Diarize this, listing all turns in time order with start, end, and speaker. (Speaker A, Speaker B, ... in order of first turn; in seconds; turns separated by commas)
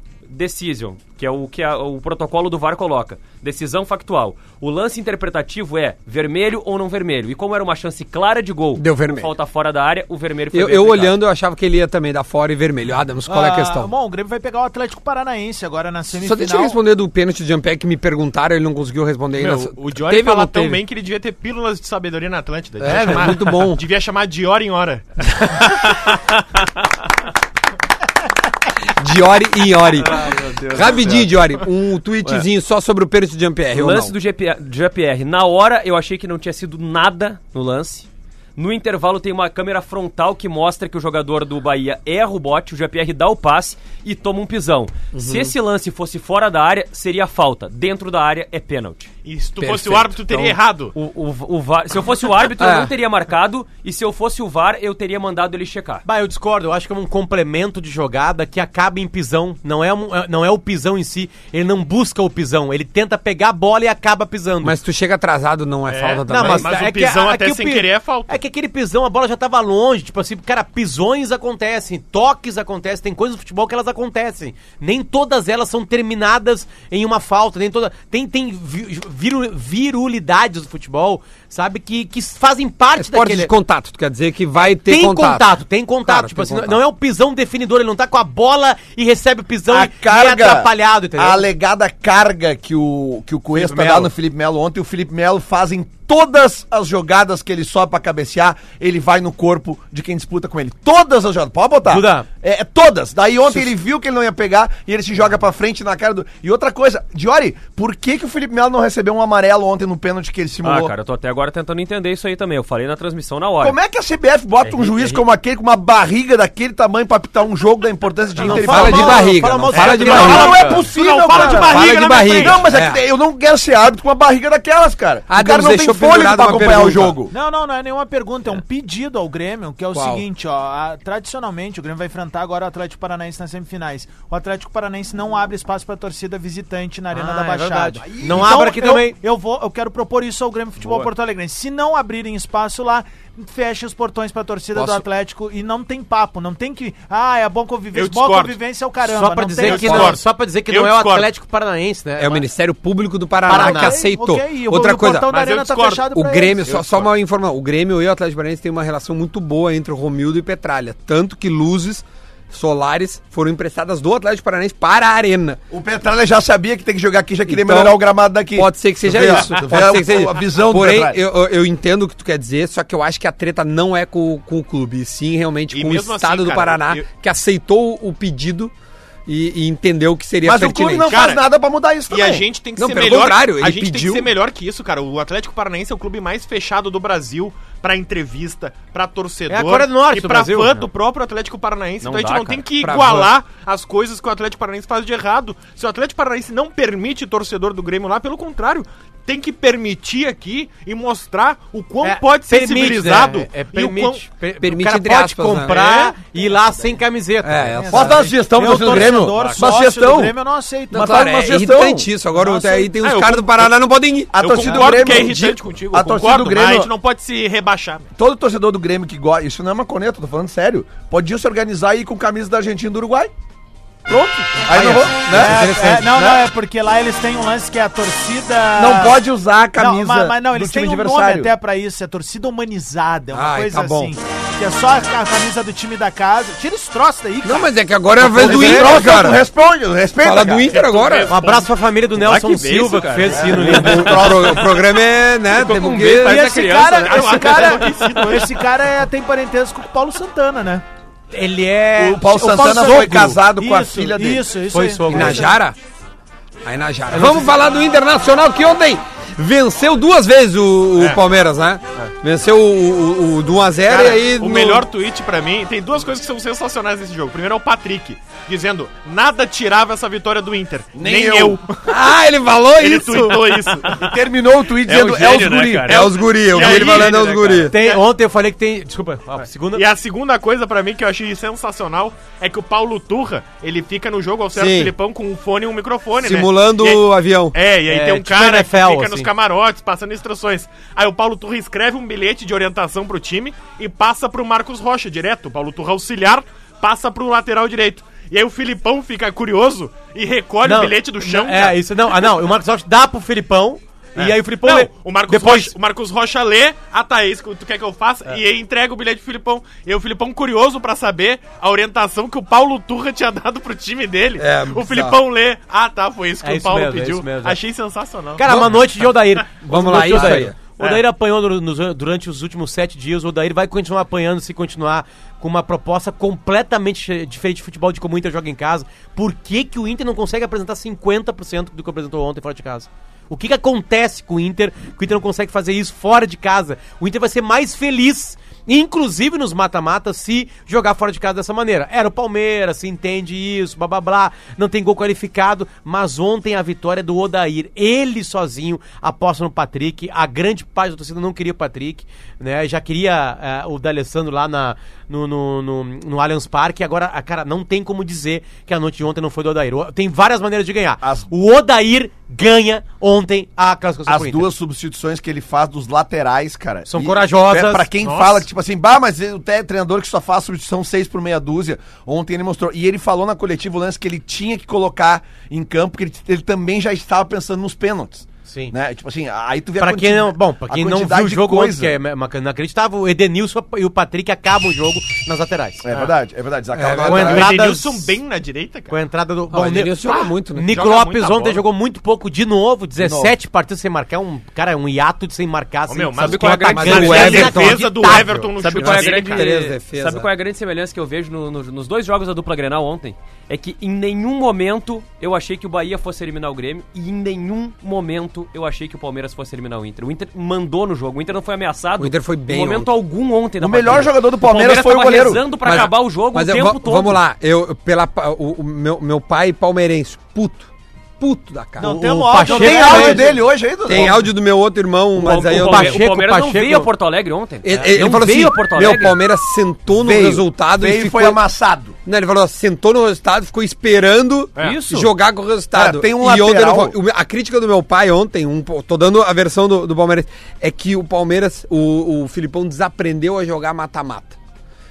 Speaker A: 0.3-11.2, Speaker B: 8.8-9.3, Speaker B: 10.5-13.9, Speaker C: 13.3-16.8, Speaker B: 16.2-20.8, Speaker D: 19.4-25.1, Speaker B: 22.8-23.8, Speaker B: 29.0-34.1, Speaker A: 30.0-31.3, Speaker A: 33.7-49.1, Speaker B: 45.1-45.5, Speaker D: 49.2-51.0, Speaker B: 49.6-50.6, Speaker A: 50.9-56.0, Speaker B: 52.6-52.9, Speaker E: 56.0-64.8, Speaker B: 64.6-66.9, Speaker D: 65.9-68.4, Speaker E: 66.3-83.5, Speaker B: 83.0-86.8, Speaker E: 84.6-91.5, Speaker F: 89.7-110.9, Speaker E: 93.5-94.1, Speaker E: 101.9-102.3, Speaker A: 110.6-113.8, Speaker F: 113.6-119.3, Speaker A: 114.7-115.2, Speaker E: 118.4-120.8, Speaker B: 118.4-120.8, Speaker D: 119.7-122.7, Speaker F: 119.9-127.3, Speaker B: 121.3-123.0, Speaker B: 125.3-127.2, Speaker C: 127.3-150.2, Speaker B: 129.9-130.2, Speaker E: 137.1-139.2, Speaker F: 138.1-138.7, Speaker B: 144.7-145.1, Speaker D: 147.9-148.6, Speaker E: 149.0-152.4, Speaker D: 149.6-151.3, Speaker B: 152.2-155.3, Speaker E: 153.5-154.0, Speaker C: 153.5-156.7, Speaker D: 155.3-156.1, Speaker B: 156.0-165.6, Speaker D: 156.7-157.1, Speaker F: 165.7-171.2, Speaker B: 167.5-178.7, Speaker D: 175.7-177.1, Speaker B: 179.3-181.2, Speaker F: 180.4-182.5, Speaker D: 181.1-181.5, Speaker D: 182.1-204.3, Speaker B: 182.8-184.3, Speaker E: 189.5-190.8, Speaker A: 192.0-192.7, Speaker B: 192.8-193.3, Speaker E: 202.0-207.9, Speaker B: 204.6-205.8, Speaker D: 205.7-206.2, Speaker B: 207.4-208.3, Speaker C: 207.8-211.3, Speaker F: 207.9-210.4, Speaker A: 209.3-209.6, Speaker F: 210.9-212.1, Speaker B: 210.9-215.6, Speaker D: 212.8-213.7, Speaker F: 214.3-216.9, Speaker D: 214.4-218.1, Speaker F: 218.2-223.3, Speaker F: 224.1-226.5, Speaker B: 224.7-226.0, Speaker C: 225.3-229.2, Speaker F: 228.8-231.5, Speaker C: 229.8-237.7, Speaker B: 233.3-234.1, Speaker B: 237.4-239.5, Speaker F: 238.3-240.8, Speaker E: 238.4-238.7, Speaker B: 240.2-241.3, Speaker D: 240.7-241.7, Speaker E: 241.3-244.4, Speaker A: 242.2-244.8, Speaker F: 243.4-243.9, Speaker B: 243.5-246.5, Speaker A: 245.5-247.8, Speaker C: 246.2-250.8, Speaker D: 247.1-248.6, Speaker E: 251.3-253.4, Speaker F: 252.0-254.5, Speaker C: 252.4-255.5, Speaker E: 254.7-255.6, Speaker B: 255.1-255.8, Speaker B: 256.6-264.9, Speaker E: 257.1-257.5, Speaker D: 261.0-261.2, Speaker D: 263.9-271.9, Speaker F: 270.9-271.6, Speaker B: 271.9-273.7, Speaker D: 272.8-274.0, Speaker F: 273.9-276.1, Speaker A: 274.8-277.7, Speaker B: 275.9-277.8, Speaker D: 276.0-278.0, Speaker E: 277.7-279.9, Speaker D: 279.7-301.8, Speaker B: 284.5-284.9, Speaker B: 286.2-287.6, Speaker E: 287.9-289.3, Speaker E: 300.6-305.7, Speaker D: 304.2-318.8, Speaker B: 314.4-315.2, Speaker E: 316.4-317.6, Speaker E: 318.4-364.5, Speaker B: 318.4-318.9, Speaker B: 319.6-320.6, Speaker D: 319.8-321.0, Speaker F: 361.0-361.3, Speaker F: 364.1-382.0, Speaker E: 366.9-367.9, Speaker D: 368.0-368.5, Speaker E: 378.5-378.7, Speaker E: 379.8-385.9, Speaker F: 385.9-387.5, Speaker B: 386.7-387.5, Speaker E: 387.0-388.1, Speaker D: 387.2-388.9, Speaker E: 388.9-398.5, Speaker B: 389.5-390.9, Speaker D: 390.7-391.6, Speaker F: 393.0-393.3, Speaker D: 395.9-399.5, Speaker A: 396.2-397.6, Speaker B: 396.4-398.2, Speaker A: 398.6-417.2, Speaker B: 398.7-400.3, Speaker B: 412.0-412.9, Speaker F: 413.6-415.5, Speaker B: 415.6-422.1, Speaker C: 421.8-423.4, Speaker E: 421.8-423.3, Speaker F: 422.4-424.3, Speaker B: 423.8-426.1, Speaker A: 425.2-429.2, Speaker E: 425.2-426.9, Speaker B: 427.6-431.4, Speaker E: 427.7-428.3, Speaker F: 429.9-432.0, Speaker B: 432.1-444.4, Speaker A: 434.6-435.1, Speaker F: 435.7-437.0